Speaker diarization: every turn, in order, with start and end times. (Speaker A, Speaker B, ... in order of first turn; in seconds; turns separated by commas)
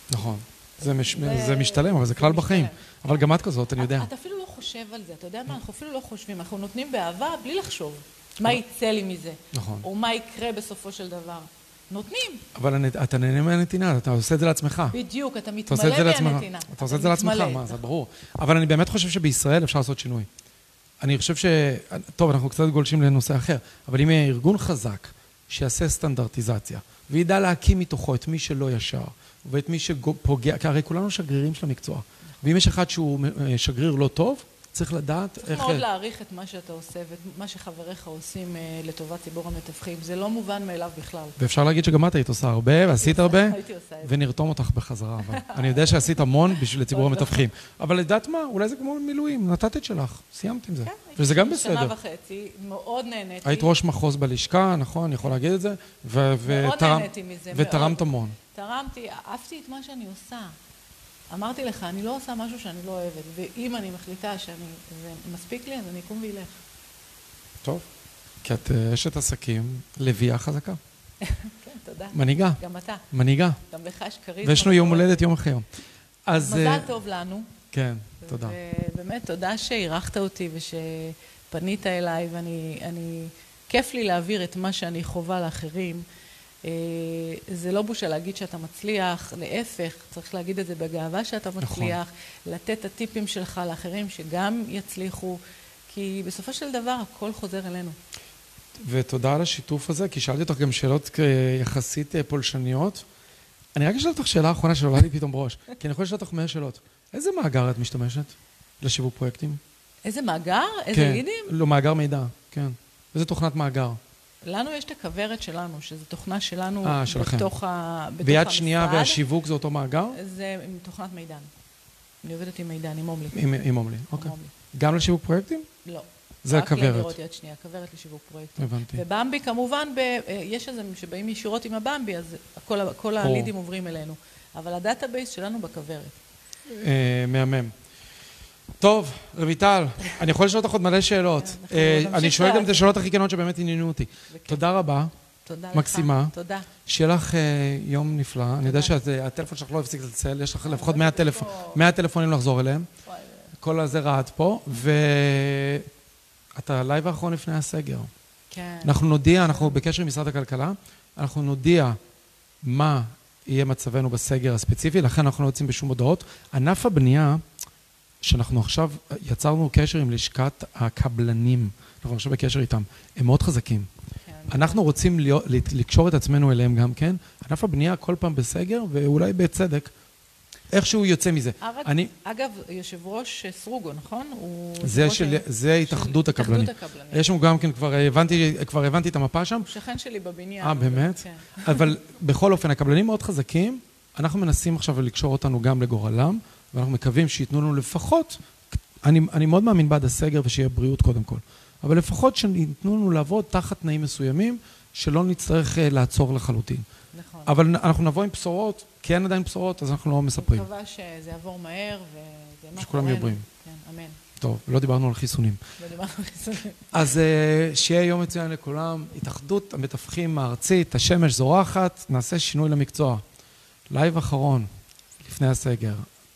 Speaker A: 0.1-4.1, Speaker B: 0.8-12.4, Speaker A: 9.5-9.9, Speaker A: 12.6-15.0, Speaker B: 14.9-17.8, Speaker A: 15.7-20.3, Speaker A: 21.0-35.9, Speaker B: 35.4-41.4, Speaker A: 41.4-51.9, Speaker B: 42.9-44.1, Speaker B: 45.2-47.5, Speaker B: 50.8-53.7, Speaker A: 53.4-58.4, Speaker B: 56.5-60.6, Speaker B: 61.3-66.6, Speaker A: 68.4-70.8, Speaker B: 71.2-73.0, Speaker A: 72.1-72.6, Speaker A: 73.1-73.6, Speaker B: 73.7-75.3, Speaker A: 74.4-75.7, Speaker A: 76.3-76.9, Speaker B: 76.4-77.5, Speaker A: 77.7-78.6, Speaker B: 78.2-86.0, Speaker B: 86.6-98.0, Speaker A: 91.6-92.0, Speaker A: 98.8-103.0, Speaker A: 103.8-109.6, Speaker B: 110.0-111.5, Speaker A: 110.9-114.0, Speaker B: 114.4-119.2, Speaker A: 116.8-117.5, Speaker A: 118.2-120.2, Speaker B: 120.1-121.5, Speaker B: 122.2-123.4, Speaker A: 123.3-125.7, Speaker B: 124.1-124.5, Speaker B: 125.8-136.2, Speaker A: 126.4-127.2, Speaker A: 128.6-129.0, Speaker A: 133.2-133.5, Speaker A: 136.7-137.7, Speaker A: 138.8-145.1, Speaker B: 141.4-143.0, Speaker B: 144.3-144.7, Speaker B: 145.4-146.7, Speaker A: 145.7-146.3, Speaker A: 146.9-152.9, Speaker B: 148.6-149.0, Speaker B: 150.6-151.9, Speaker B: 153.1-153.5, Speaker A: 153.6-155.9, Speaker A: 156.6-158.1, Speaker B: 158.5-159.8, Speaker A: 158.8-162.0, Speaker A: 162.6-167.4, Speaker A: 168.2-173.9, Speaker B: 174.2-174.9, Speaker A: 174.5-179.9, Speaker A: 180.7-182.1, Speaker B: 181.6-187.3, Speaker A: 184.8-189.7, Speaker B: 189.7-191.8, Speaker A: 190.6-198.4, Speaker A: 199.0-206.9, Speaker B: 207.1-207.6, Speaker A: 207.5-210.7, Speaker B: 210.3-214.2, Speaker A: 212.8-213.4, Speaker A: 214.4-215.6, Speaker B: 215.8-217.0, Speaker A: 216.9-223.2, Speaker A: 223.9-224.7, Speaker A: 225.2-226.1